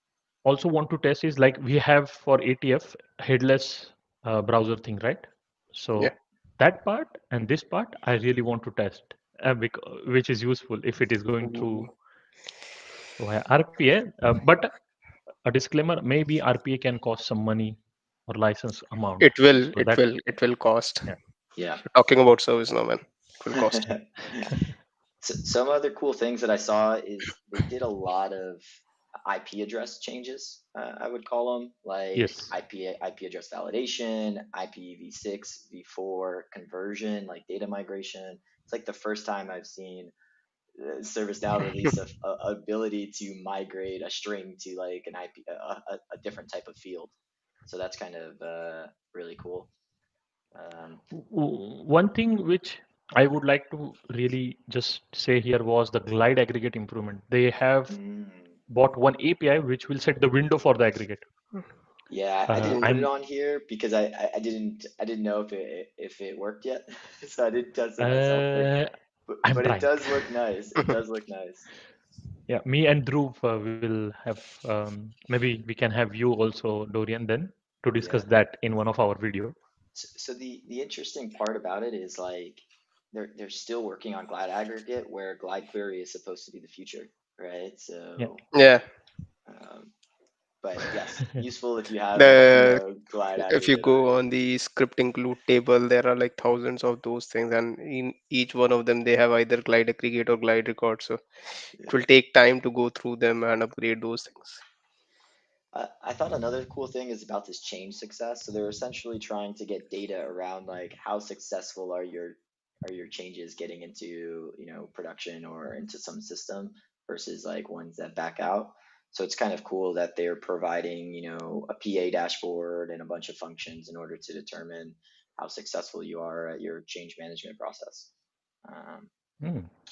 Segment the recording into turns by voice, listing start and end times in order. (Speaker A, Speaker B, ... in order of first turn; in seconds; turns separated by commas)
Speaker A: 0.5-11.9, Speaker B: 11.6-11.8, Speaker A: 13.2-14.8, Speaker A: 15.4-20.0, Speaker B: 19.2-21.1, Speaker C: 21.6-21.8, Speaker B: 21.9-23.9, Speaker C: 23.5-24.6, Speaker C: 25.2-28.6, Speaker C: 29.3-40.1, Speaker A: 32.1-32.5, Speaker C: 40.8-47.1, Speaker C: 47.7-49.7, Speaker C: 50.5-51.0, Speaker A: 51.1-58.0, Speaker C: 57.9-58.6, Speaker A: 58.7-61.2, Speaker C: 62.1-71.7, Speaker A: 62.5-63.1, Speaker A: 68.0-68.9, Speaker A: 69.5-70.2, Speaker A: 72.5-79.6, Speaker C: 78.0-78.3, Speaker C: 80.0-88.4, Speaker B: 88.5-88.8, Speaker C: 89.5-89.9, Speaker C: 90.6-94.0, Speaker B: 92.2-92.8, Speaker B: 93.4-101.2, Speaker B: 101.8-104.6, Speaker C: 105.7-128.1, Speaker C: 128.7-129.1, Speaker A: 129.4-129.7